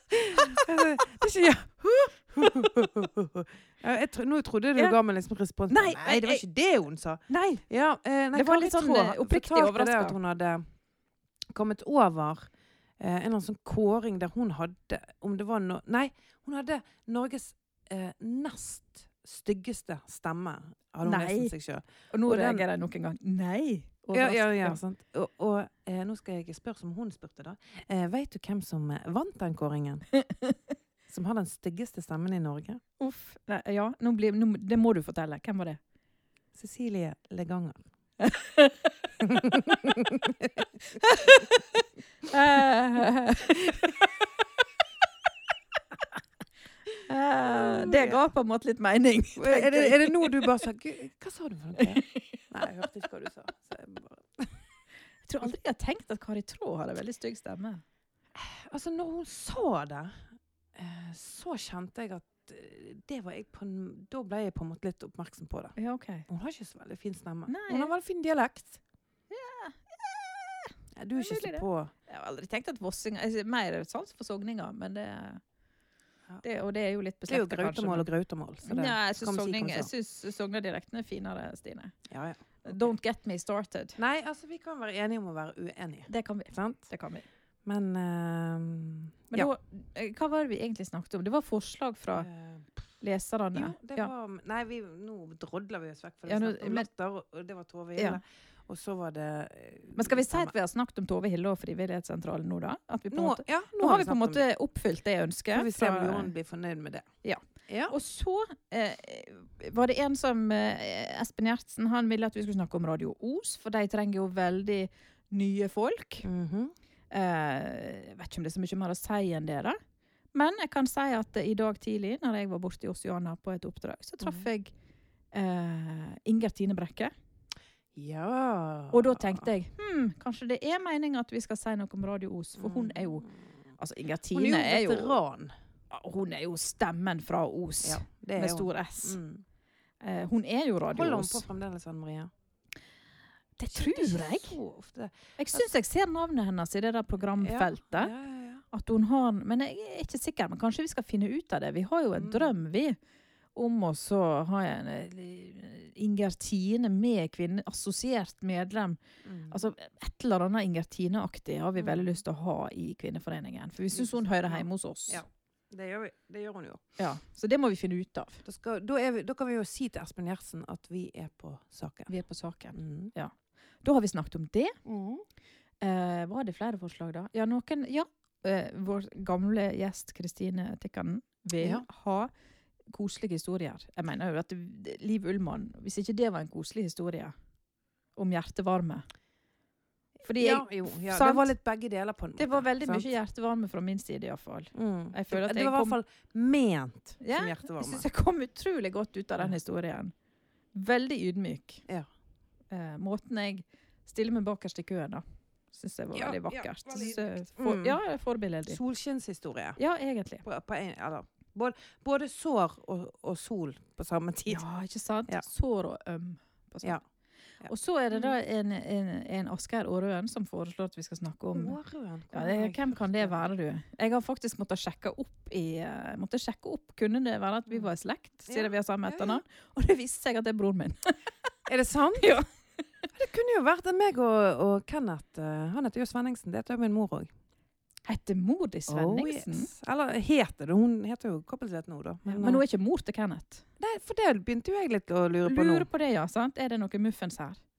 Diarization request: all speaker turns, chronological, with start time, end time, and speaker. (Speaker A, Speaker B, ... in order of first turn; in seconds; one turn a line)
Speaker A: 0.1-10.6
Speaker B: 0.3-0.9
Speaker B: 5.7-6.4
Speaker B: 7.3-7.6
Speaker B: 8.3-10.2
Speaker A: 11.5-22.6
Speaker B: 21.0-21.5
Speaker B: 22.1-24.8
Speaker A: 24.1-30.1
Speaker B: 30.2-30.5
Speaker A: 31.1-32.8
Speaker B: 33.0-35.8
Speaker A: 36.5-37.8
Speaker B: 38.2-38.9
Speaker A: 39.2-40.7
Speaker B: 41.0-44.1
Speaker B: 47.0-50.5
Speaker A: 47.4-48.2
Speaker A: 49.4-54.6
Speaker B: 51.8-52.4
Speaker B: 55.2-57.8
Speaker A: 58.3-65.8
Speaker B: 65.8-66.3
Speaker A: 66.3-68.8
Speaker B: 67.5-67.9
Speaker B: 69.3-75.4
Speaker A: 71.0-71.9
Speaker B: 76.4-78.1
Speaker A: 77.3-79.9
Speaker B: 78.6-82.0
Speaker A: 82.1-82.9
Speaker B: 82.6-84.0
Speaker A: 84.0-86.8
Speaker B: 86.1-87.2
Speaker A: 87.6-89.5
Speaker B: 89.3-92.3
Speaker A: 92.1-92.7
Speaker B: 93.0-94.1
Speaker A: 93.5-100.5
Speaker B: 96.3-96.9
Speaker B: 98.0-98.2
Speaker B: 100.0-106.3
Speaker A: 103.1-104.5
Speaker A: 105.5-107.1
Speaker B: 107.2-116.2
Speaker A: 107.7-107.9
Speaker A: 116.2-116.7
Speaker B: 117.1-119.8
Speaker B: 120.3-124.7
Speaker A: 124.2-124.5
Speaker B: 125.3-127.1
Speaker A: 127.9-129.5
Speaker B: 128.9-133.3
Speaker A: 132.6-133.3
Speaker B: 133.8-135.2
Speaker A: 134.3-135.5
Speaker B: 135.9-139.2
Speaker A: 137.8-139.4
Speaker B: 140.0-141.4
Speaker A: 140.9-142.3
Speaker B: 143.6-144.6
Speaker A: 143.7-145.7
Speaker B: 145.4-148.1
Speaker A: 147.4-148.6
Speaker B: 148.7-153.0
Speaker A: 152.2-152.5
Speaker B: 153.5-159.0
Speaker A: 159.2-159.6
Speaker B: 159.5-165.2
Speaker A: 161.8-162.1
Speaker A: 163.9-166.9
Speaker B: 167.0-168.4
Speaker A: 168.4-172.1
Speaker B: 172.1-174.8
Speaker A: 172.7-173.1
Speaker A: 174.8-175.2
Speaker B: 175.8-182.3
Speaker A: 181.6-181.8
Speaker B: 182.9-187.3
Speaker B: 188.2-189.1
Speaker A: 190.2-193.1
Speaker B: 190.2-191.5
Speaker B: 192.4-196.0
Speaker A: 194.7-198.1
Speaker B: 197.2-200.1
Speaker B: 200.7-201.8
Speaker B: 202.7-208.8
Speaker A: 206.1-208.0
Speaker A: 208.7-209.8
Speaker B: 209.8-210.4
Speaker A: 210.4-214.6
Speaker B: 214.5-217.0
Speaker A: 217.6-218.3
Speaker B: 217.7-221.8
Speaker A: 221.5-223.4
Speaker B: 222.3-231.2
Speaker A: 228.5-229.4
Speaker A: 231.7-232.4
Speaker B: 232.2-232.8
Speaker A: 233.1-237.3
Speaker B: 238.1-239.7
Speaker A: 238.9-242.6
Speaker B: 242.2-243.6
Speaker A: 243.8-245.9
Speaker B: 245.4-247.6